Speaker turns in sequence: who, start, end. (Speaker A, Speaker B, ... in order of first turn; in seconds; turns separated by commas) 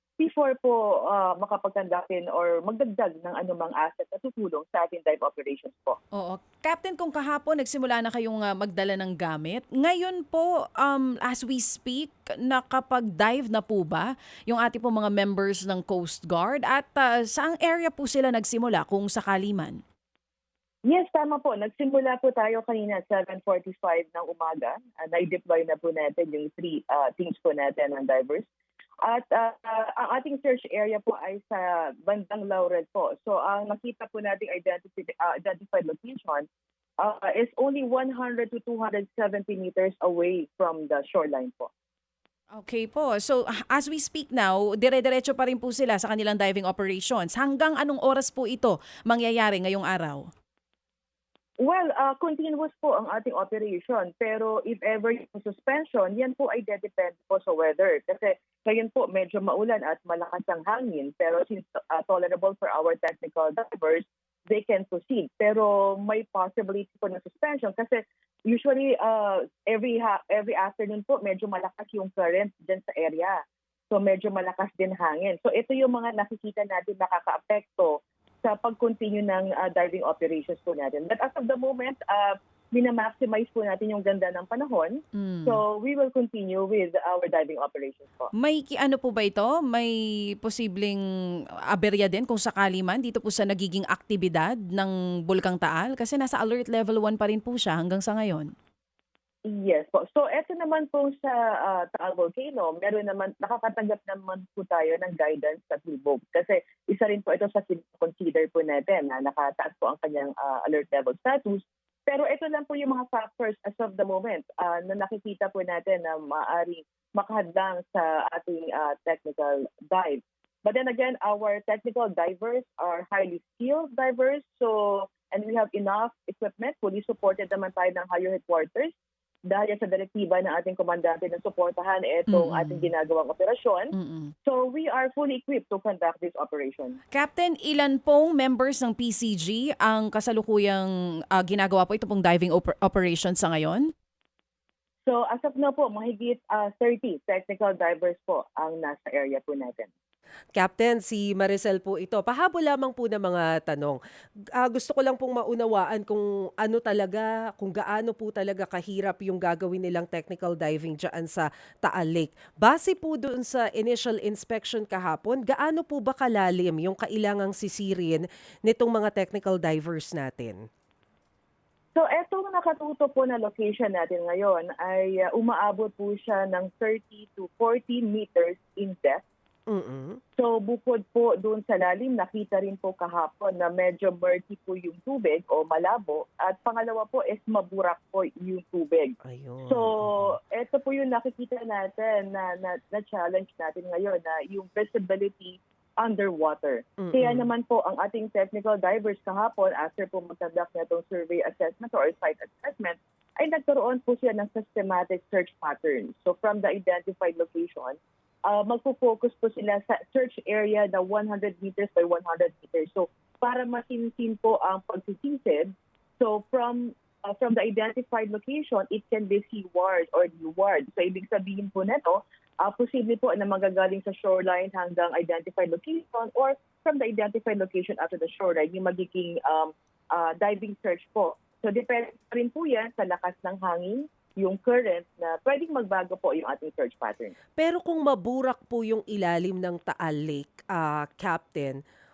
Speaker A: 0.2-6.0, Speaker B: 6.1-19.8, Speaker A: 20.9-28.4, Speaker A: 29.0-36.5, Speaker A: 37.0-41.7, Speaker B: 42.5-50.2, Speaker A: 51.6-73.4, Speaker A: 73.9-88.3, Speaker B: 85.1-85.6, Speaker B: 88.3-91.0, Speaker B: 91.7-98.5, Speaker A: 99.5-128.9, Speaker A: 129.5-133.9, Speaker B: 132.3-132.9, Speaker B: 133.9-134.3, Speaker A: 134.4-137.0, Speaker B: 137.1-143.9, Speaker A: 145.1-149.9, Speaker C: 150.5-154.0, Speaker C: 154.6-170.6, Speaker A: 171.9-179.2, Speaker C: 179.7-180.2, Speaker A: 180.4-189.1, Speaker C: 189.2-190.3, Speaker A: 189.7-237.3, Speaker C: 197.0-197.5, Speaker C: 237.6-241.8